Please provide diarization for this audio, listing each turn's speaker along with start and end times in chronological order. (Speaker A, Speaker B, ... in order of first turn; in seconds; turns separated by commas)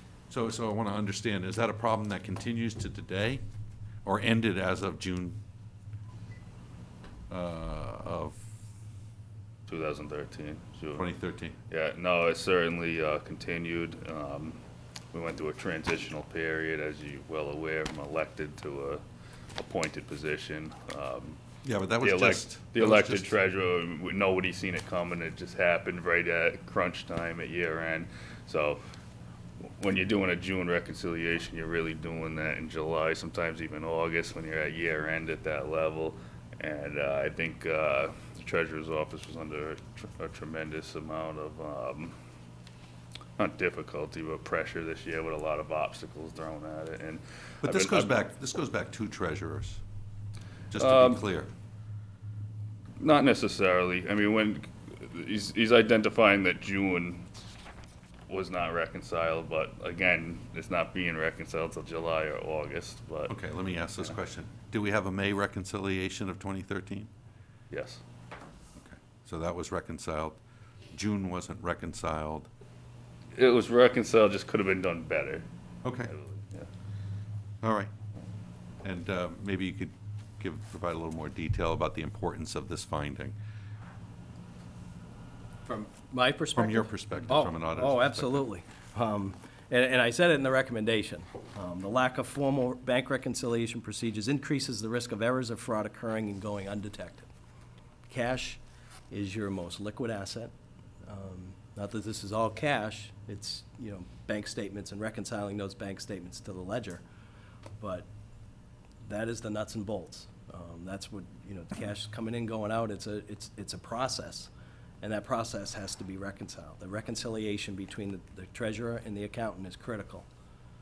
Speaker A: 0.3-3.4, Speaker A: 4.0-5.4, Speaker A: 7.3-8.4, Speaker B: 9.7-11.1, Speaker A: 10.9-11.6, Speaker B: 11.7-14.6, Speaker B: 15.1-19.0, Speaker B: 19.6-21.4, Speaker A: 21.6-23.3, Speaker B: 22.0-28.8, Speaker B: 29.6-42.1, Speaker B: 43.4-48.2, Speaker A: 47.6-49.8, Speaker A: 50.7-51.5, Speaker B: 50.8-51.2, Speaker B: 53.0-57.3, Speaker B: 58.3-63.3, Speaker A: 63.3-67.1, Speaker B: 67.7-68.0, Speaker A: 68.8-70.4, Speaker A: 70.9-72.5, Speaker B: 73.3-75.5, Speaker A: 75.8-76.1, Speaker B: 76.1-76.7, Speaker A: 77.6-77.9, Speaker A: 78.8-83.3, Speaker C: 85.7-97.3, Speaker A: 86.5-88.5, Speaker C: 98.1-100.5, Speaker C: 101.0-107.0, Speaker C: 107.8-108.1, Speaker C: 109.0-120.3